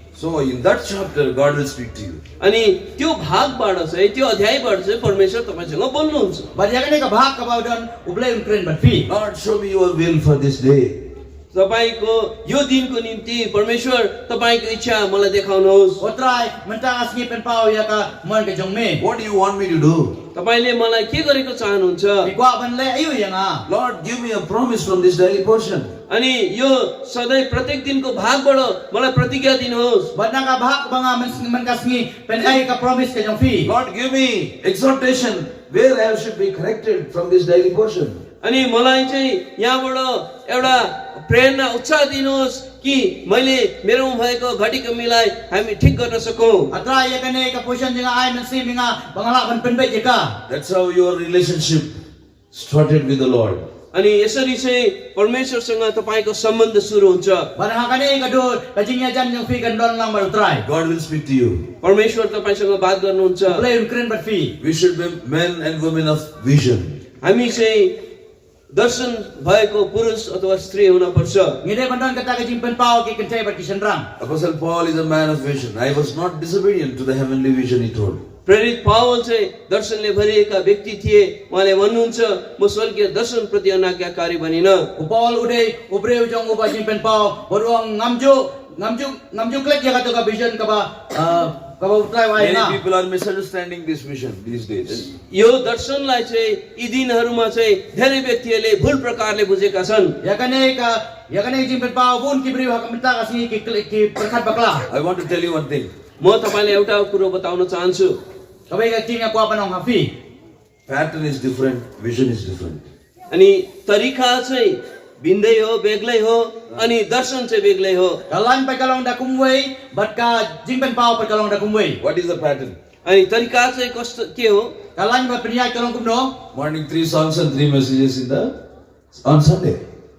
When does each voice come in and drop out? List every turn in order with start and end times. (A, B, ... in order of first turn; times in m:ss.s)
0:00.1-0:02.2 A
0:02.4-0:06.5 B
0:06.5-0:09.1 C
0:09.1-0:11.1 A
0:11.5-0:16.0 B
0:16.0-0:19.0 C
0:19.0-0:20.2 A
0:20.3-0:22.3 B
0:22.2-0:23.6 C
0:23.7-0:25.9 A
0:26.1-0:30.1 B
0:30.1-0:33.7 C
0:33.6-0:38.2 A
0:38.4-0:46.7 B
0:46.7-0:50.4 C
0:50.5-0:51.9 A
0:52.5-0:53.6 A
0:53.9-0:57.5 B
0:57.6-1:00.7 C
1:00.6-1:01.7 A
1:01.8-1:03.6 B
1:03.5-1:04.5 C
1:04.6-1:07.0 A
1:07.2-1:07.9 B
1:08.7-1:11.6 B
1:11.6-1:14.1 C
1:14.2-1:18.2 A
1:18.4-1:24.9 B
1:25.0-1:32.8 C
1:32.4-1:35.1 A
1:35.3-1:40.2 B
1:40.2-1:44.8 C
1:44.9-1:45.9 A
1:46.2-1:48.2 B
1:48.7-1:50.1 C
1:50.9-1:52.8 A
1:53.3-1:58.2 B
1:58.3-2:02.0 C
2:02.0-2:02.8 A
2:03.0-2:04.7 B
2:05.0-2:06.3 C
2:06.5-2:08.5 A
2:09.1-2:09.8 A